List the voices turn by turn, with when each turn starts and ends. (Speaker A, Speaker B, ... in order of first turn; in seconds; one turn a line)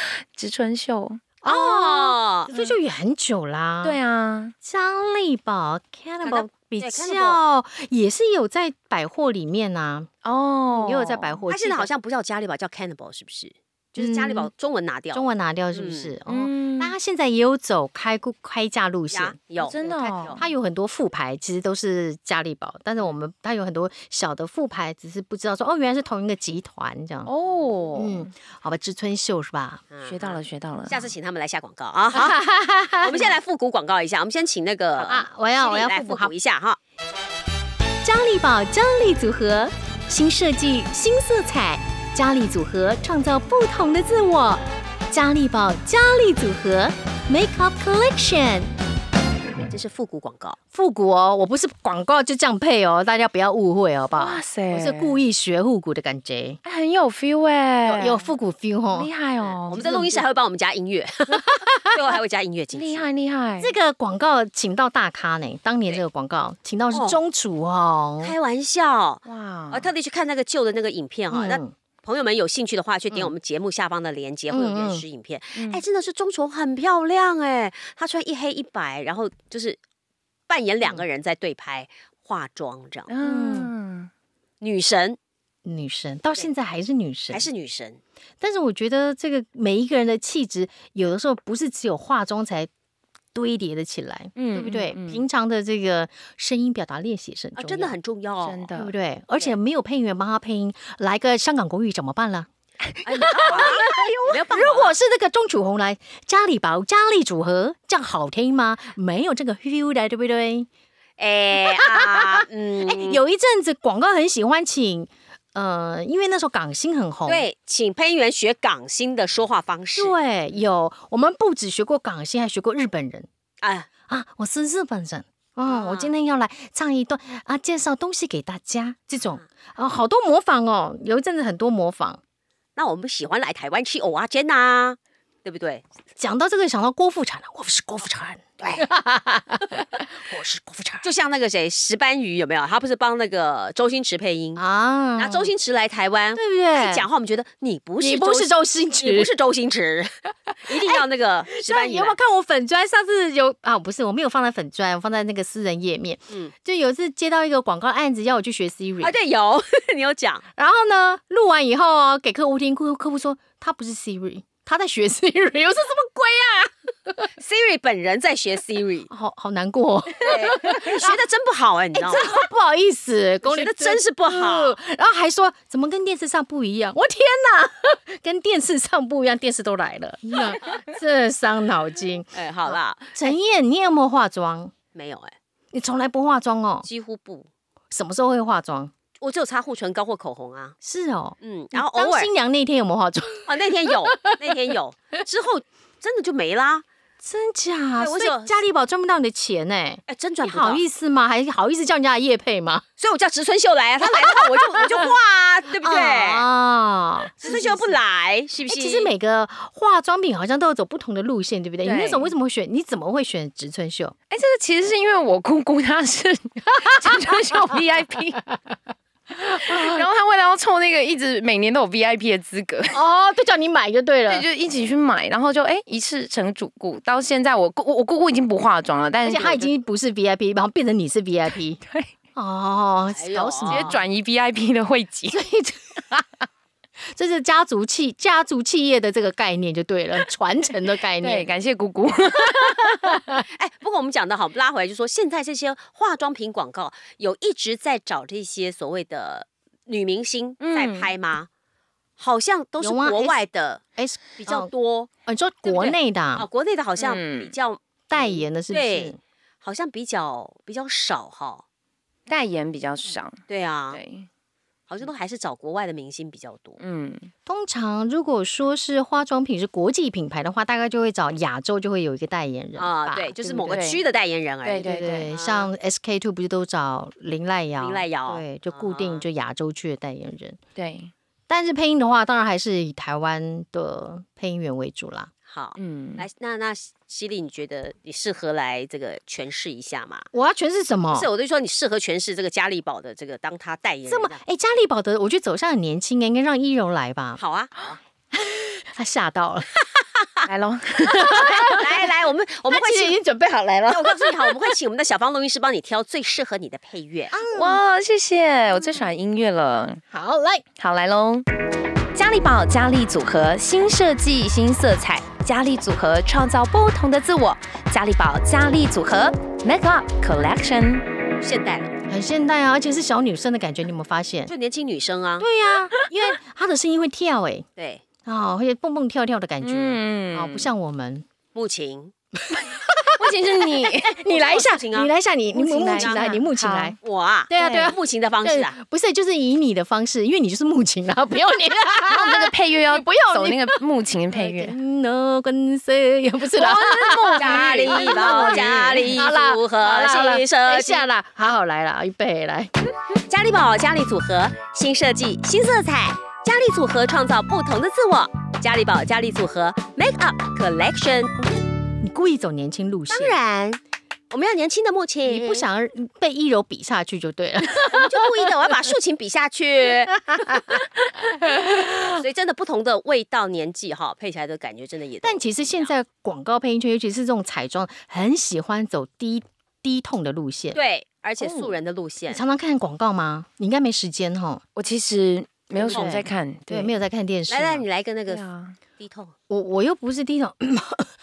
Speaker A: 0.1-1.2
Speaker B: 1.4-4.0
Speaker C: 1.4-2.5
Speaker A: 2.5-2.8
Speaker A: 3.8-4.5
Speaker B: 4.6-10.1
Speaker C: 6.2-7.4
Speaker A: 10.2-11.4
Speaker B: 10.7-11.9
Speaker C: 11.5-16.1
Speaker B: 14.0-14.5
Speaker B: 15.1-19.4
Speaker A: 16.3-16.9
Speaker C: 19.1-20.4
Speaker A: 19.6-20.4
Speaker B: 20.3-27.3
Speaker A: 27.3-28.3
Speaker B: 27.9-29.9
Speaker C: 29.9-32.4
Speaker A: 30.0-31.1
Speaker B: 32.1-33.4
Speaker C: 33.0-36.8
Speaker B: 35.0-36.3
Speaker B: 38.0-48.7
Speaker C: 49.7-50.6
Speaker B: 50.7-56.6
Speaker A: 54.2-55.2
Speaker A: 56.6-58.3
Speaker B: 57.8-59.1
Speaker A: 58.9-60.2
Speaker C: 59.7-63.1
Speaker B: 61.3-61.8
Speaker A: 62.7-63.8
Speaker B: 63.6-68.3
Speaker C: 66.9-67.2
Speaker C: 68.2-79.8
Speaker A: 69.2-69.9
Speaker B: 71.3-71.7
Speaker B: 74.5-75.0
Speaker A: 75.5-75.8
Speaker C: 80.5-83.1
Speaker A: 83.1-84.1
Speaker B: 83.2-83.7
Speaker C: 84.6-85.2
Speaker B: 85.6-87.5
Speaker C: 87.3-88.0
Speaker B: 88.4-92.7
Speaker B: 93.3-98.0
Speaker A: 94.3-95.2
Speaker C: 97.5-98.7
Speaker A: 98.4-98.9
Speaker B: 98.7-102.5
Speaker A: 102.9-103.7
Speaker C: 103.0-104.9
Speaker B: 103.2-110.7
Speaker C: 111.2-113.2
Speaker B: 111.7-117.5
Speaker C: 117.3-120.2
Speaker B: 120.0-123.3
Speaker C: 123.6-123.9
Speaker B: 124.1-132.2
Speaker C: 125.7-126.2
Speaker C: 132.8-135.8
Speaker B: 136.2-141.1
Speaker C: 138.6-138.8
Speaker C: 141.0-144.6
Speaker B: 144.6-145.5
Speaker C: 145.2-150.1
Speaker B: 146.3-147.1
Speaker B: 148.0-149.3
Speaker C: 150.7-152.2
Speaker B: 150.7-159.2
Speaker C: 159.0-160.4
Speaker B: 160.6-167.3
Speaker C: 167.4-169.1
Speaker B: 169.1-171.1
Speaker C: 170.2-172.4
Speaker B: 171.9-184.7
Speaker C: 173.4-174.8
Speaker C: 182.3-183.3
Speaker C: 184.9-185.3
Speaker B: 185.7-186.9
Speaker C: 186.8-187.5
Speaker B: 187.9-188.9
Speaker C: 189.2-190.8
Speaker B: 190.8-193.6
Speaker C: 191.4-192.3
Speaker C: 193.5-196.8
Speaker B: 197.2-202.8
Speaker C: 198.0-198.6
Speaker C: 200.1-200.8
Speaker C: 203.0-206.5
Speaker B: 204.8-205.1
Speaker B: 205.8-208.0
Speaker C: 207.4-209.1
Speaker B: 208.7-214.2
Speaker A: 211.8-212.3
Speaker A: 214.3-218.4
Speaker A: 219.3-223.0
Speaker B: 222.9-224.5
Speaker A: 224.3-229.7
Speaker B: 229.2-231.8
Speaker B: 232.3-234.0
Speaker C: 233.1-233.9
Speaker A: 233.7-235.4
Speaker B: 235.3-236.2
Speaker B: 237.1-241.5
Speaker A: 241.2-243.2
Speaker C: 243.5-251.5
Speaker A: 250.6-251.1
Speaker C: 252.2-253.8
Speaker B: 252.8-253.4
Speaker B: 254.0-254.7
Speaker C: 254.3-255.1
Speaker B: 255.2-256.4
Speaker C: 255.7-261.6
Speaker A: 257.0-257.5
Speaker B: 258.1-259.2
Speaker A: 262.3-264.3
Speaker C: 263.5-264.0
Speaker C: 264.9-266.8
Speaker A: 266.8-267.3
Speaker B: 267.4-273.8
Speaker C: 272.8-275.7
Speaker A: 273.4-274.0
Speaker A: 274.6-275.3
Speaker B: 274.8-280.6
Speaker C: 277.8-279.2
Speaker A: 280.8-281.1
Speaker B: 281.5-285.3
Speaker C: 285.5-290.3
Speaker A: 285.8-286.2
Speaker B: 290.3-291.3
Speaker C: 291.1-294.4
Speaker B: 294.1-297.4
Speaker C: 297.4-298.0
Speaker B: 298.3-299.7
Speaker C: 300.0-300.5
Speaker A: 300.4-301.7
Speaker C: 301.2-303.2
Speaker B: 301.2-301.9
Speaker B: 302.7-304.7
Speaker C: 303.9-307.4
Speaker B: 307.3-307.8
Speaker A: 307.4-310.0
Speaker B: 310.1-310.6
Speaker A: 310.8-311.5
Speaker A: 312.1-321.1
Speaker C: 321.4-321.9
Speaker B: 322.1-324.5
Speaker C: 324.5-325.5
Speaker B: 325.4-327.7
Speaker C: 327.8-328.0
Speaker B: 328.2-331.2
Speaker A: 329.6-330.7
Speaker C: 331.5-332.1
Speaker B: 332.6-337.0
Speaker A: 333.2-334.1
Speaker C: 334.2-335.1
Speaker A: 335.5-337.0
Speaker C: 335.9-336.2
Speaker C: 337.0-338.8
Speaker B: 337.5-343.8
Speaker A: 337.6-337.9
Speaker A: 342.1-344.8
Speaker B: 344.3-352.7
Speaker C: 346.6-351.1
Speaker A: 346.7-349.1
Speaker C: 353.2-361.4
Speaker B: 362.0-363.4
Speaker C: 363.1-365.7
Speaker B: 365.2-368.2
Speaker C: 367.9-370.8
Speaker C: 372.0-375.9
Speaker B: 375.2-380.8
Speaker C: 380.7-382.4
Speaker A: 381.4-381.7
Speaker B: 382.3-384.6
Speaker A: 384.8-386.9
Speaker C: 385.8-386.3
Speaker B: 385.8-387.9
Speaker C: 387.5-388.4
Speaker A: 388.3-388.8
Speaker C: 389.0-389.3
Speaker B: 389.5-391.1